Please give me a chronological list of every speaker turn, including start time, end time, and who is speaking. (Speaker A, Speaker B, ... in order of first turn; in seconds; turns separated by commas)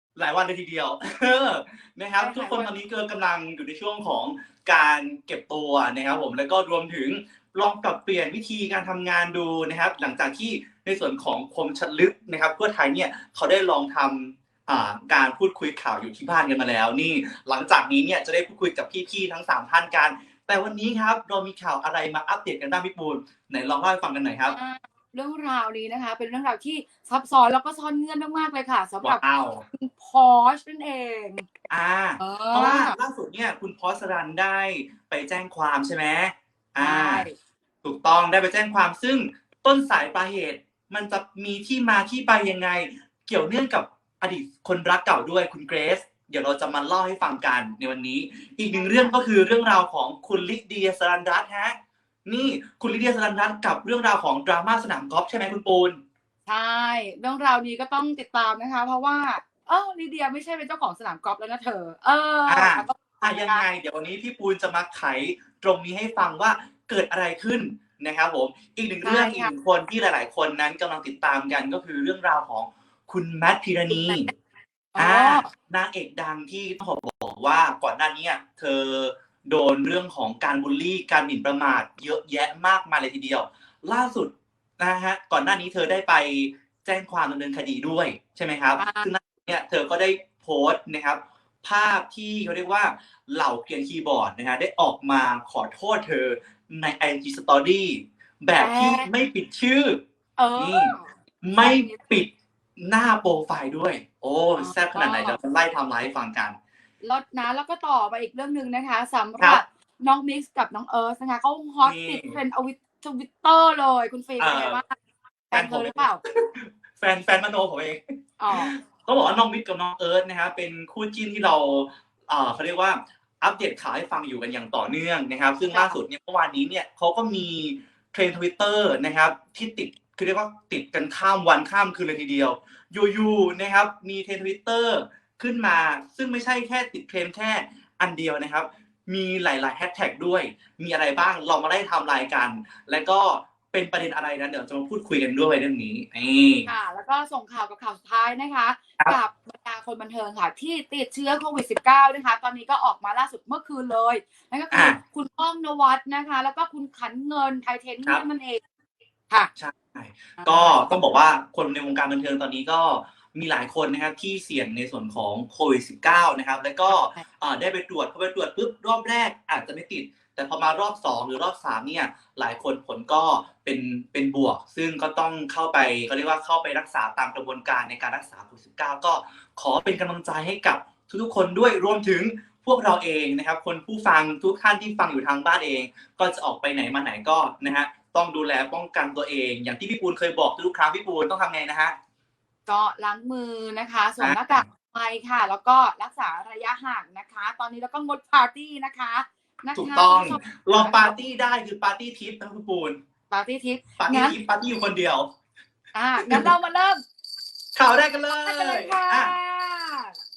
Speaker A: 0.2-24.6, Speaker B: 2.2-2.7, Speaker B: 24.5-31.5, Speaker A: 29.0-29.6, Speaker A: 31.7-37.3, Speaker B: 32.2-33.0, Speaker B: 36.8-37.4, Speaker A: 37.8-56.0, Speaker B: 48.7-49.2, Speaker B: 56.5-63.6, Speaker A: 62.5-74.3, Speaker B: 69.0-69.5, Speaker B: 73.9-74.2, Speaker B: 75.0-75.5, Speaker A: 75.0-100.0, Speaker B: 88.8-89.1, Speaker B: 98.6-99.1, Speaker B: 100.4-101.1, Speaker A: 100.6-106.6, Speaker B: 101.6-102.0, Speaker B: 104.6-105.4, Speaker B: 107.0-114.9, Speaker A: 111.8-112.4, Speaker A: 114.4-114.8, Speaker B: 115.5-116.2, Speaker A: 115.5-146.7, Speaker B: 118.4-118.7, Speaker B: 125.7-126.0, Speaker B: 146.7-158.6, Speaker A: 154.7-155.0, Speaker A: 159.6-192.0, Speaker B: 160.4-160.9, Speaker B: 166.9-167.2, Speaker B: 192.7-201.2, Speaker A: 194.2-194.7, Speaker A: 199.8-203.0, Speaker B: 203.3-204.4, Speaker A: 204.0-205.3, Speaker B: 205.9-207.0, Speaker A: 206.2-206.5, Speaker A: 207.8-209.3, Speaker B: 208.3-210.1